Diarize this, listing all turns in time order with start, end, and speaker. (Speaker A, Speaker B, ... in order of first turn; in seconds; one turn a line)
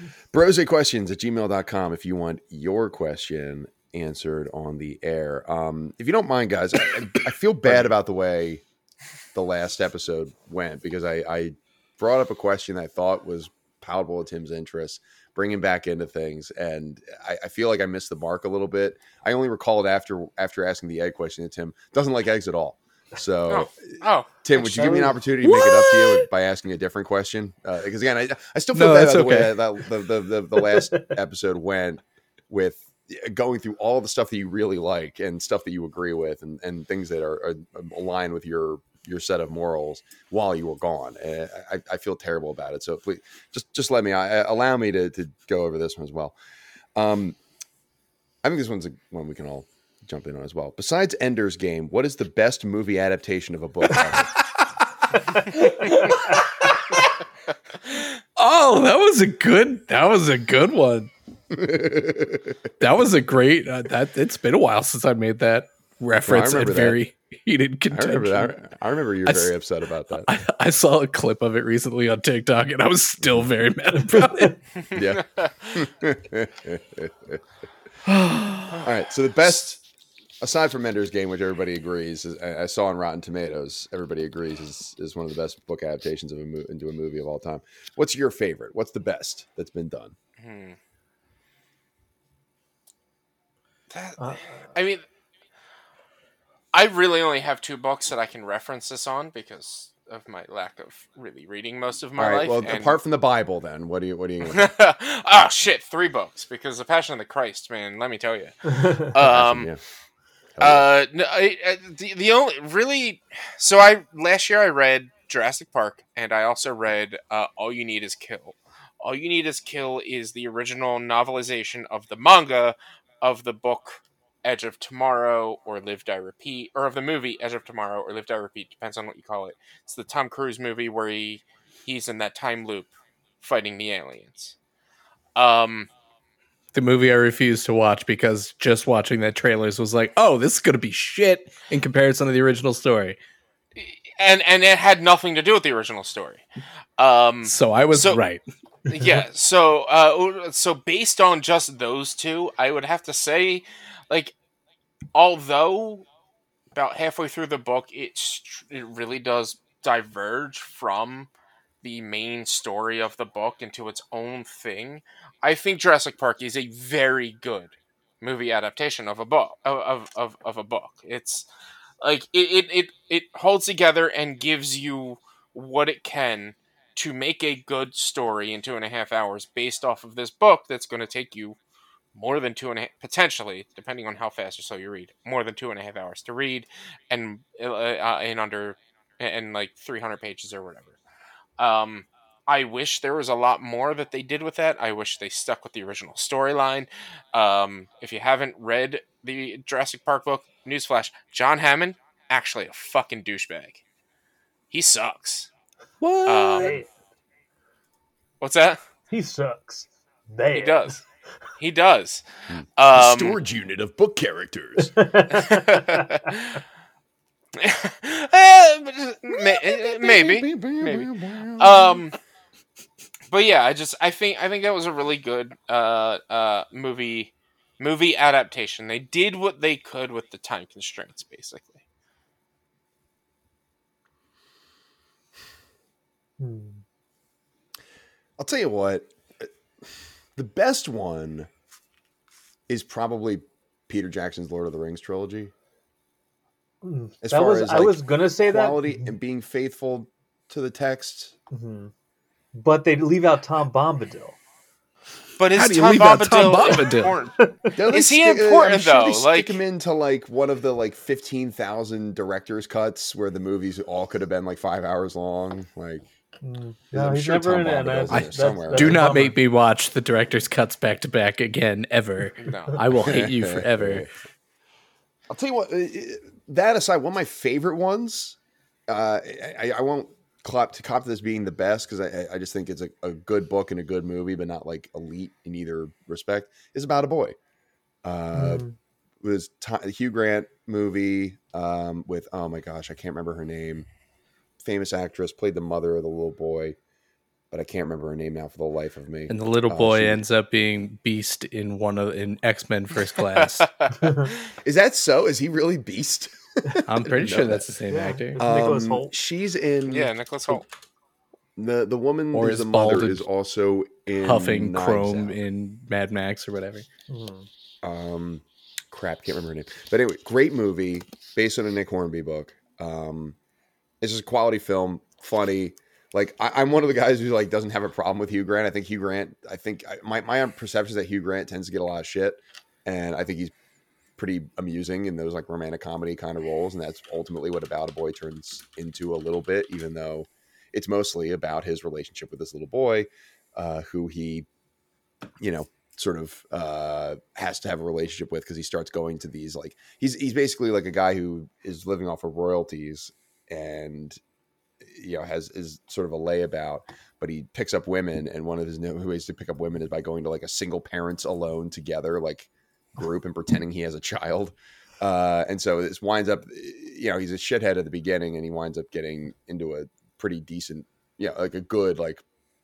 Speaker A: 0.3-8.6
Speaker A: 9.3-46.4
Speaker B: 23.5-24.5
Speaker C: 24.8-25.1
Speaker D: 25.4-26.2
Speaker D: 28.7-29.8
Speaker C: 30.6-30.9
Speaker A: 47.0-47.4
Speaker A: 48.4-54.3
Speaker D: 54.0-54.7
Speaker C: 55.4-56.5
Speaker D: 56.2-57.0
Speaker D: 58.4-61.1
Speaker A: 61.5-62.7
Speaker D: 62.8-68.5
Speaker A: 66.2-67.0
Speaker A: 67.9-70.3
Speaker D: 69.2-69.5
Speaker D: 70.2-74.6
Speaker C: 74.2-74.5
Speaker B: 74.8-75.8
Speaker A: 74.9-77.4
Speaker D: 78.1-78.8
Speaker A: 78.8-79.8
Speaker A: 80.4-90.2
Speaker B: 90.4-90.8
Speaker B: 93.9-95.0
Speaker C: 94.2-94.6
Speaker B: 96.7-103.0
Speaker A: 102.2-104.7
Speaker B: 104.5-109.7
Speaker C: 108.7-109.0
Speaker A: 109.2-109.8
Speaker A: 110.6-110.9
Speaker B: 110.6-134.6
Speaker B: 135.4-135.9
Speaker D: 136.7-143.2
Speaker B: 143.8-146.4
Speaker B: 147.0-148.2
Speaker D: 147.4-148.4
Speaker B: 148.9-154.3
Speaker B: 155.1-156.1
Speaker B: 156.8-161.3
Speaker B: 161.8-171.5
Speaker B: 172.0-181.6
Speaker B: 182.1-191.0
Speaker B: 191.6-203.8
Speaker B: 204.7-205.5
Speaker D: 206.0-206.8
Speaker B: 206.3-206.8
Speaker C: 206.6-206.9
Speaker B: 208.4-208.8
Speaker C: 209.1-211.0
Speaker B: 210.5-211.0
Speaker B: 211.6-212.2
Speaker A: 212.5-214.9
Speaker B: 212.8-213.4
Speaker C: 215.0-216.1
Speaker B: 215.4-216.6
Speaker B: 217.6-222.2
Speaker A: 219.5-222.0
Speaker B: 223.3-231.8
Speaker C: 236.4-236.8
Speaker A: 238.4-239.5
Speaker A: 240.4-241.5
Speaker A: 242.7-245.5
Speaker C: 246.8-249.1
Speaker A: 247.2-251.3
Speaker C: 251.5-251.9
Speaker C: 252.5-254.4
Speaker B: 255.4-259.6
Speaker D: 255.5-257.2
Speaker C: 256.7-257.8
Speaker A: 257.8-266.0
Speaker C: 266.4-269.4
Speaker A: 266.9-269.0
Speaker D: 268.1-274.1
Speaker B: 272.4-272.9
Speaker A: 273.0-274.1
Speaker A: 275.3-278.4
Speaker A: 278.9-287.4
Speaker A: 288.0-288.6
Speaker C: 288.3-288.8
Speaker A: 289.2-293.9
Speaker A: 294.6-296.8
Speaker A: 297.5-300.2
Speaker D: 299.3-303.7
Speaker B: 303.4-303.9
Speaker C: 304.0-304.3
Speaker A: 304.6-307.7
Speaker D: 306.9-308.5
Speaker C: 307.9-309.1
Speaker A: 308.4-310.6
Speaker B: 309.9-310.6
Speaker A: 311.6-315.4
Speaker D: 312.3-313.3
Speaker D: 314.2-316.9
Speaker C: 317.1-317.5
Speaker A: 317.8-323.4
Speaker A: 324.0-333.5
Speaker A: 334.2-344.5
Speaker A: 345.4-354.2
Speaker A: 354.8-372.2